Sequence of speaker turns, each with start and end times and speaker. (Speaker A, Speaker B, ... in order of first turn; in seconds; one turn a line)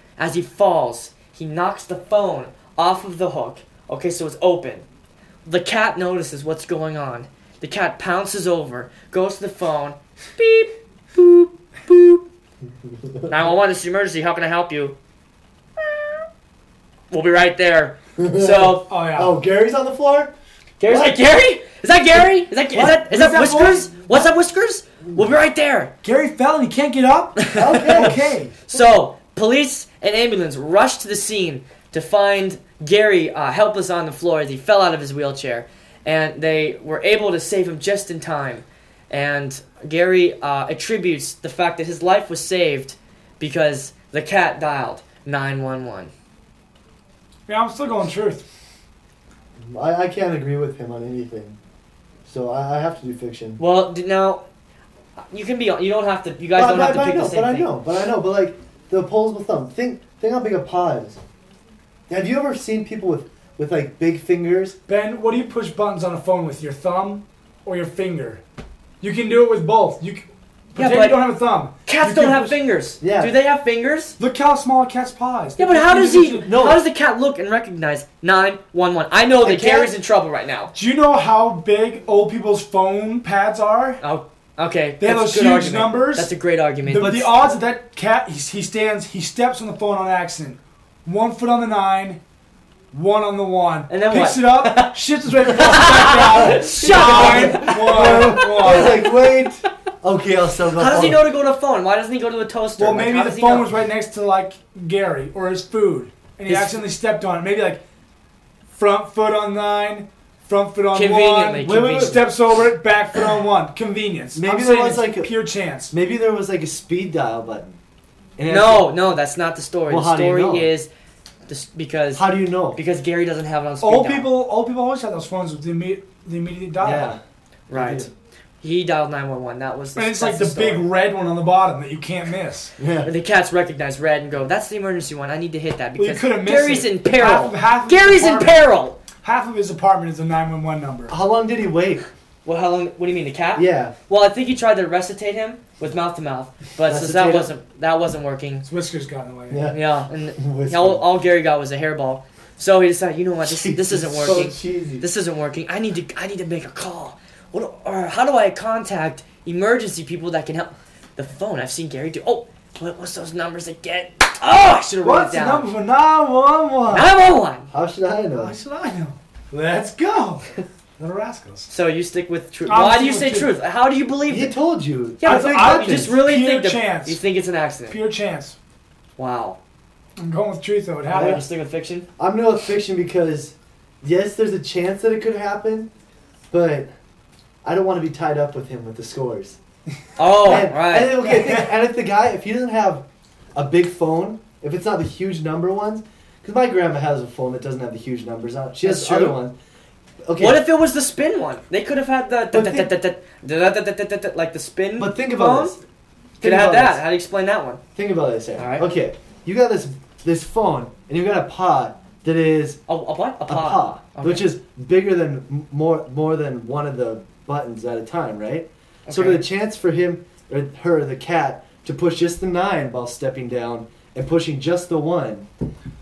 Speaker A: 0.2-4.9
Speaker A: 5.5-12.2
Speaker A: 13.3-14.9
Speaker A: 15.8-16.2
Speaker A: 17.1-18.9
Speaker B: 18.2-20.3
Speaker C: 18.9-19.4
Speaker A: 20.8-25.9
Speaker B: 20.9-21.2
Speaker C: 22.7-23.9
Speaker C: 26.0-28.6
Speaker A: 27.4-28.1
Speaker B: 27.6-28.2
Speaker A: 28.7-46.1
Speaker C: 47.5-48.5
Speaker B: 49.7-51.6
Speaker B: 52.2-53.6
Speaker A: 53.6-54.4
Speaker A: 55.3-57.7
Speaker B: 56.5-61.2
Speaker B: 62.1-64.8
Speaker C: 64.9-68.4
Speaker C: 69.0-72.6
Speaker A: 70.8-71.2
Speaker A: 71.8-74.2
Speaker B: 73.0-73.3
Speaker C: 74.2-76.5
Speaker A: 75.6-80.7
Speaker B: 76.4-76.8
Speaker B: 79.4-79.9
Speaker C: 80.7-84.0
Speaker A: 84.0-87.3
Speaker C: 85.0-86.3
Speaker B: 86.9-87.3
Speaker C: 87.0-92.2
Speaker C: 92.9-99.1
Speaker A: 93.9-98.9
Speaker B: 96.8-101.2
Speaker A: 100.8-103.7
Speaker C: 102.8-107.8
Speaker A: 106.5-106.8
Speaker C: 108.7-115.9
Speaker A: 110.9-112.2
Speaker B: 111.7-112.1
Speaker B: 114.4-115.3
Speaker B: 115.9-117.8
Speaker B: 118.4-118.9
Speaker A: 118.5-120.9
Speaker B: 119.9-120.7
Speaker A: 121.5-124.3
Speaker B: 122.2-122.8
Speaker C: 123.8-127.1
Speaker B: 126.8-128.1
Speaker A: 127.7-128.1
Speaker A: 128.6-130.8
Speaker C: 130.0-132.7
Speaker B: 132.8-133.1
Speaker A: 133.0-139.0
Speaker C: 136.0-141.2
Speaker B: 141.1-142.1
Speaker A: 142.4-148.7
Speaker B: 143.6-143.9
Speaker B: 146.9-147.5
Speaker C: 148.7-149.6
Speaker B: 149.5-149.8
Speaker A: 149.7-165.7
Speaker B: 150.4-151.1
Speaker B: 153.4-155.1
Speaker C: 165.0-167.1
Speaker A: 166.9-167.7
Speaker B: 167.7-168.6
Speaker C: 168.3-171.7
Speaker A: 171.7-174.6
Speaker C: 172.7-173.5
Speaker B: 174.3-176.1
Speaker A: 175.2-178.0
Speaker C: 175.2-177.2
Speaker C: 177.9-178.6
Speaker A: 179.2-179.6
Speaker C: 180.2-181.4
Speaker A: 181.1-182.1
Speaker B: 181.1-181.4
Speaker B: 182.2-185.9
Speaker B: 186.5-186.9
Speaker B: 187.6-189.6
Speaker A: 190.2-191.3
Speaker B: 190.4-199.6
Speaker A: 198.8-199.4
Speaker B: 200.2-200.6
Speaker A: 200.4-205.8
Speaker B: 202.5-202.9
Speaker B: 205.0-205.8
Speaker B: 206.4-207.1
Speaker A: 206.4-207.8
Speaker B: 207.9-212.8
Speaker A: 208.6-208.9
Speaker A: 212.9-214.5
Speaker B: 213.5-225.5
Speaker A: 219.1-219.5